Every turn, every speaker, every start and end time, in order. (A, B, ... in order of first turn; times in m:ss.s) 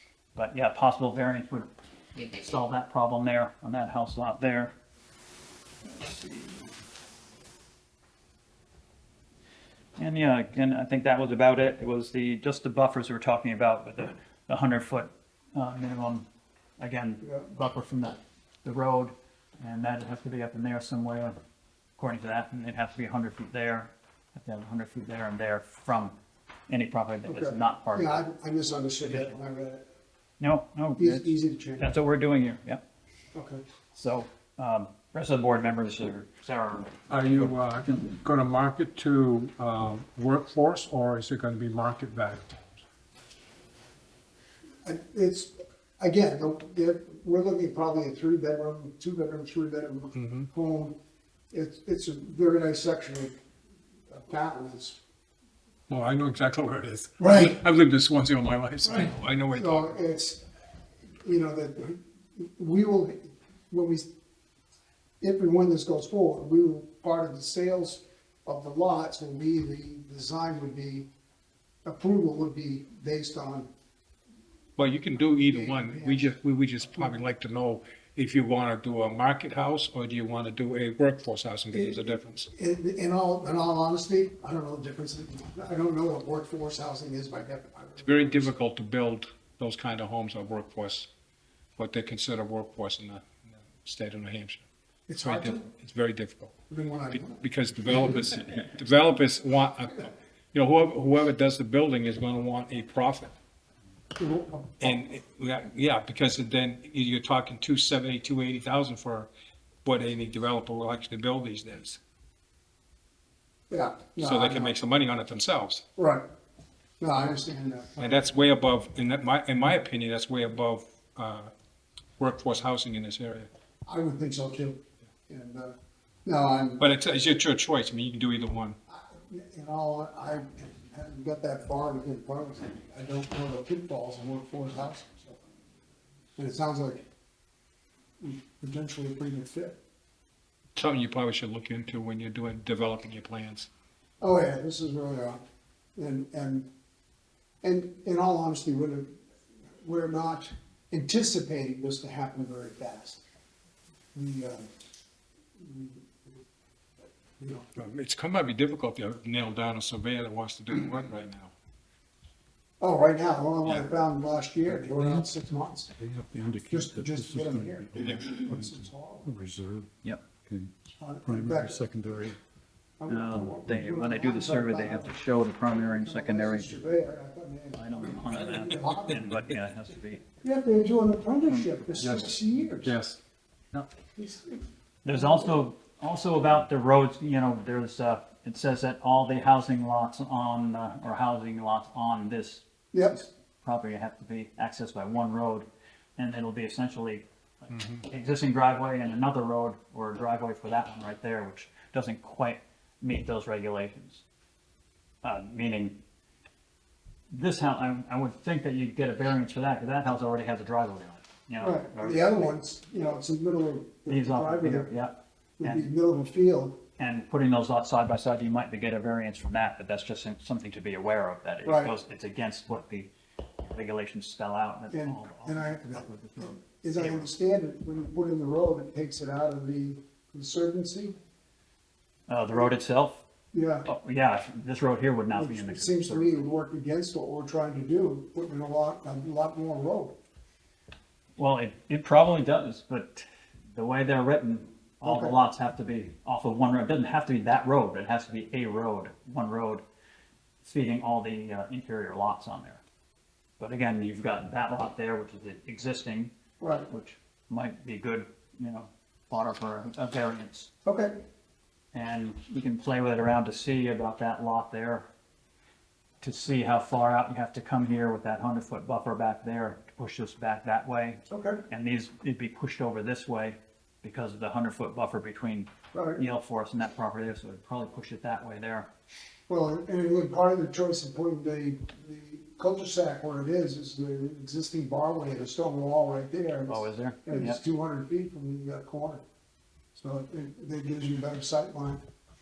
0:00.4-0:04.7 A
0:05.8-0:06.7 A
0:10.0-0:16.3 A
0:16.8-0:21.4 A
0:17.2-0:17.5 B
0:22.0-0:26.2 A
0:26.7-0:28.2 A
0:27.3-0:29.8 B
0:29.0-0:29.3 A
0:30.4-0:32.8 A
0:31.0-0:31.9 B
0:33.3-0:33.6 B
0:33.9-0:38.2 A
0:37.1-0:42.8 C
0:44.8-0:51.0 B
0:50.2-0:50.5 C
0:51.5-0:53.4 B
0:54.1-0:55.0 B
0:55.9-0:59.9 C
0:57.2-0:57.6 B
0:59.5-1:00.4 B
1:01.2-1:04.1 B
1:05.2-1:11.1 B
1:11.8-1:13.7 B
1:14.8-1:22.5 C
1:15.4-1:16.3 B
1:21.7-1:28.5 B
1:28.0-1:31.1 C
1:31.8-1:34.6 C
1:35.1-1:35.7 B
1:35.2-1:36.5 C
1:36.7-1:37.4 B
1:37.1-1:43.3 C
1:44.2-1:45.0 B
1:44.8-1:49.3 C
1:49.8-1:52.0 C
1:53.7-1:54.7 B
1:54.2-1:55.8 C
1:56.0-1:56.2 B
1:57.0-1:58.3 B
1:58.0-2:01.5 C
2:02.2-2:03.5 C
2:03.8-2:06.9 B
2:06.8-2:08.8 C
2:08.9-2:15.4 B
2:16.4-2:17.0 B
2:18.2-2:19.8 B
2:20.8-2:23.7 C
2:24.2-2:25.4 B
2:26.0-2:26.7 B
2:27.6-2:29.1 B
2:29.8-2:33.2 B
2:34.1-2:34.7 B
2:35.6-2:36.4 B
2:37.0-2:37.7 B
2:37.8-2:41.5 C
2:42.8-2:45.9 B
2:44.8-2:45.3 D
2:46.0-2:50.7 D
2:46.7-2:49.3 B
2:48.0-2:48.3 C
2:51.0-2:52.0 B
2:51.2-2:52.4 D
2:53.0-2:59.2 B
2:53.1-2:56.7 A
2:57.7-3:00.2 A
3:00.4-3:03.0 B
3:02.0-3:03.2 C
3:04.2-3:05.6 B
3:05.0-3:24.2 A
3:12.9-3:13.2 B
3:17.7-3:18.0 C
3:25.2-3:26.0 A
3:27.3-3:32.5 A
3:31.6-3:34.9 B
3:34.1-3:35.9 A
3:35.6-3:36.8 B
3:37.0-3:43.1 A
3:41.6-3:42.0 B
3:43.6-3:47.3 A
3:44.9-3:51.2 B
3:52.3-3:53.2 A
3:53.5-3:53.9 B
3:53.8-3:56.3 A
3:55.3-4:00.2 B
4:01.4-4:09.8 A
4:05.0-4:05.4 B
4:10.6-4:12.8 A
4:13.6-4:16.3 A
4:16.6-4:16.9 B
4:16.9-4:20.7 A
4:20.8-4:21.2 B
4:21.9-4:25.1 A
4:26.2-4:38.9 A
4:31.3-4:31.6 B
4:35.9-4:36.2 B
4:39.5-4:49.2 B
4:46.7-4:47.6 A
4:49.9-4:52.0 B